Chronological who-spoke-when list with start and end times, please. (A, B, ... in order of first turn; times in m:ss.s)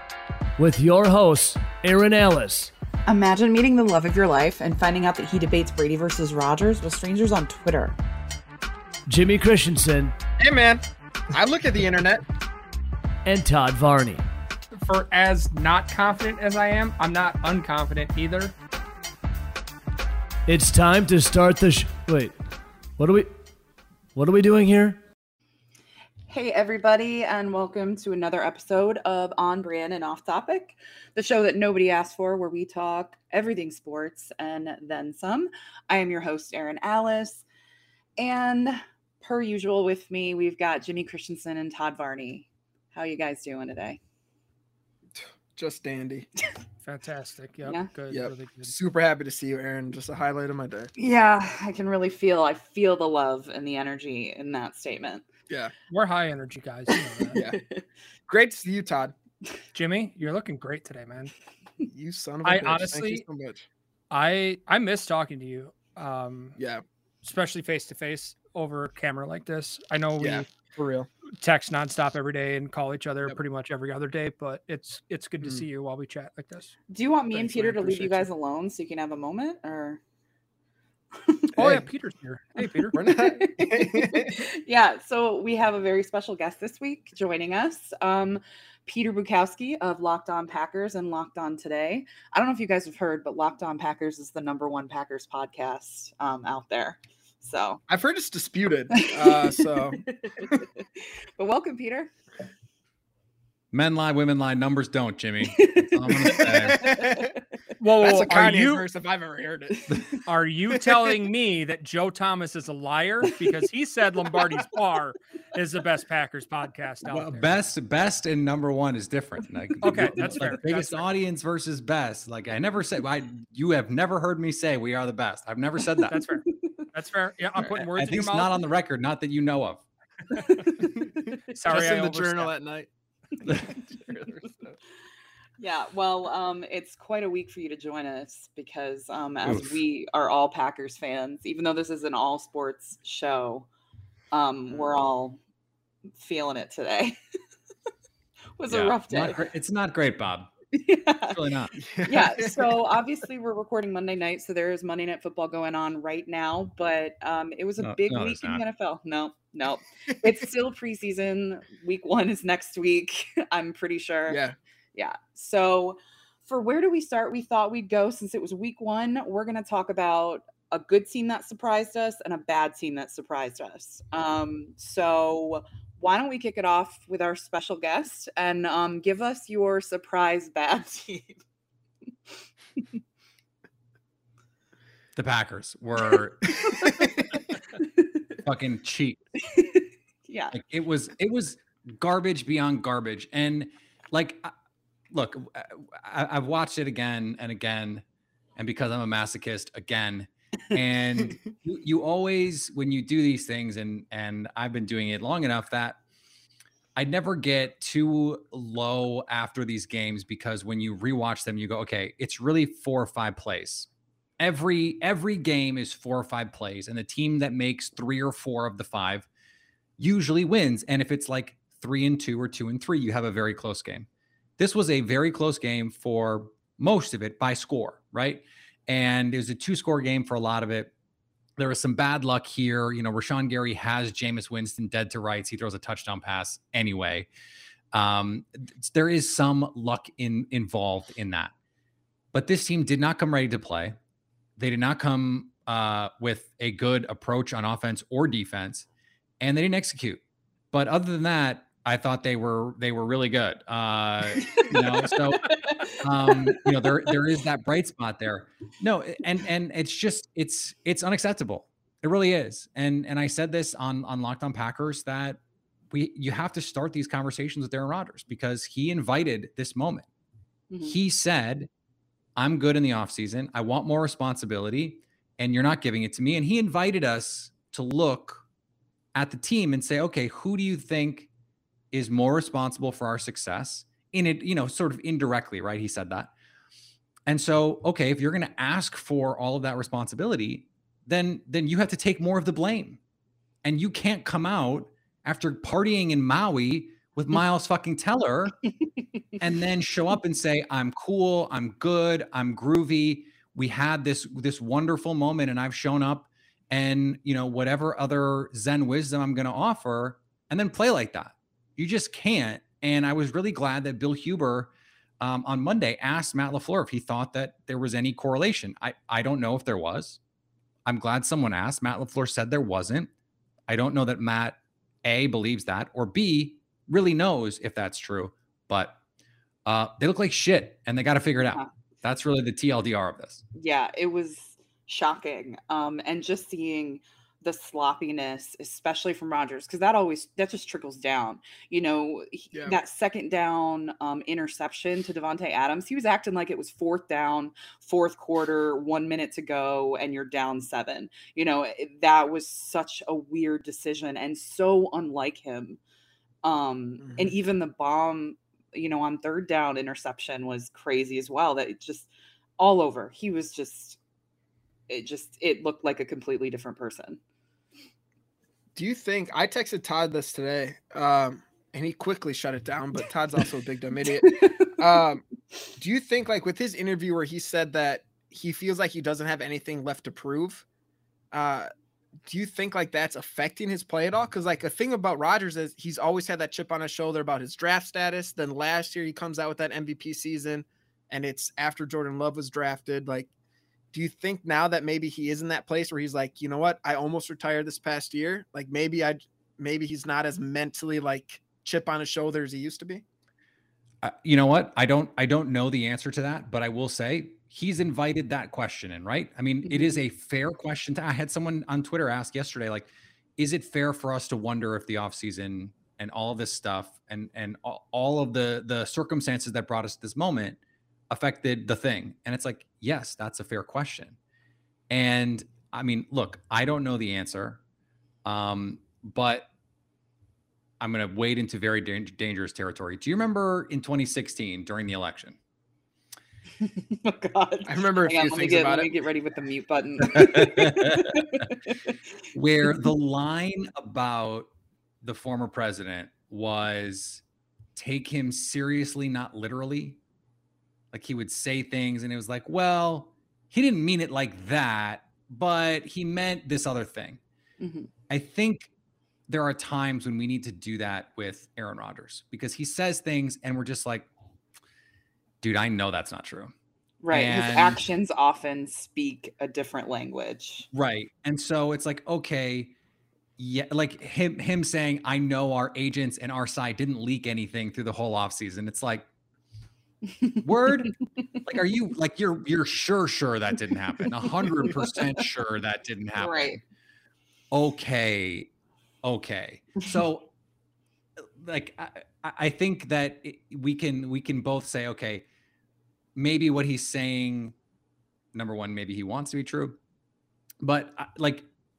0:00.6-0:02.7 A
0:03.1-0:08.0 B
0:09.1-0:10.1 A
0:10.4-0:12.2 C
0:13.2-0:14.2 A
0:14.8-0:18.5 D
0:20.5-0:23.4 A
0:24.2-0:25.0 A
0:26.3-0:37.4 B
0:38.2-0:44.0 B
0:45.2-0:46.3 C
0:46.8-0:48.8 D
0:47.6-0:47.9 B
0:48.1-0:50.9 C
0:51.0-0:55.3 B
0:55.9-0:57.4 D
0:57.3-0:57.8 B
0:58.3-0:59.1 C
0:59.7-1:01.3 D
1:01.9-1:03.7 C
1:02.4-1:03.2 D
1:04.1-1:06.6 D
1:06.6-1:06.8 C
1:07.2-1:10.5 D
1:10.2-1:11.1 C
1:11.4-1:16.7 D
1:16.9-1:20.0 B
1:17.3-1:18.3 D
1:21.2-1:21.5 B
1:21.6-1:23.0 D
1:21.6-1:21.9 C
1:22.8-1:37.8 B
1:22.9-1:24.4 C
1:37.9-1:40.6 C
1:38.9-1:42.1 B
1:43.7-1:46.8 E
1:45.6-1:47.2 B
1:46.3-1:47.4 C
1:47.8-1:48.8 D
1:48.0-1:50.0 C
1:50.3-1:57.5 D
1:57.1-2:06.2 E
1:59.8-2:01.0 D
2:06.1-2:08.6 D
2:07.9-2:09.8 E
2:10.4-2:10.6 D
2:11.5-2:12.5 D
2:11.7-2:12.9 C
2:13.5-2:14.8 C
2:15.6-2:23.7 B
2:19.4-2:19.8 E
2:24.3-2:25.4 B
2:26.2-2:27.2 B
2:28.6-2:29.4 B
2:28.7-2:30.5 E
2:30.7-2:31.4 B
2:31.3-2:31.8 E
2:31.8-2:32.8 C
2:32.1-2:44.4 B
2:37.8-2:38.6 E
2:44.3-2:44.6 C
2:45.0-3:01.4 B
3:05.2-3:07.2 E
3:08.4-3:09.2 E
3:10.3-3:10.5 B
3:10.5-3:14.5 E
3:15.1-3:18.0 E
3:18.6-3:26.0 E
3:27.0-3:33.9 E
3:34.4-3:39.3 E
3:40.0-3:50.9 E
3:51.6-3:57.3 E
3:57.9-4:01.5 E
4:02.3-4:04.0 E
4:04.6-4:08.9 E
4:09.4-4:10.2 E
4:10.7-4:25.4 E
4:15.5-4:15.9 B
4:25.9-4:30.1 E
4:30.7-4:31.0 B
4:30.8-4:31.7 E
4:32.4-4:38.4 E
4:39.2-4:41.3 E
4:41.9-4:46.3 E
4:47.3-4:53.0 E
4:53.6-4:58.6 E
4:59.4-5:20.2 E
5:20.9-5:23.1 E
5:23.7-5:29.0 E
5:29.6-5:33.4 E
5:33.6-5:55.8 B
5:56.4-6:04.0 B
5:57.0-5:57.3 C
6:04.9-6:07.2 B
6:08.8-6:15.2 C
6:14.3-6:14.7 B
6:15.8-6:20.6 C
6:21.3-6:21.7 C
6:22.2-6:33.3 C
6:33.9-6:43.0 C
6:44.0-7:00.6 E
6:49.7-6:50.0 B
7:01.1-7:04.2 E
7:04.9-7:07.6 E
7:08.2-7:09.5 E
7:10.8-7:15.4 E
7:16.6-7:21.8 B
7:17.7-7:19.0 C
7:20.0-7:21.2 E
7:22.3-7:24.5 E
7:25.0-7:27.2 E
7:27.8-7:30.0 E
7:30.9-7:37.2 E
7:37.6-7:37.9 B
7:38.1-7:38.7 E
7:39.3-7:44.1 E
7:45.4-7:46.5 E
7:47.0-7:50.7 B
7:47.1-7:47.8 E
7:50.7-7:52.7 E
7:53.4-7:59.1 E
8:00.4-8:06.6 E
8:06.2-8:06.6 B
8:07.5-8:08.5 E
8:09.0-8:10.3 E
8:11.4-8:15.3 E
8:16.2-8:17.5 E
8:18.3-8:19.8 E
8:20.6-8:21.5 E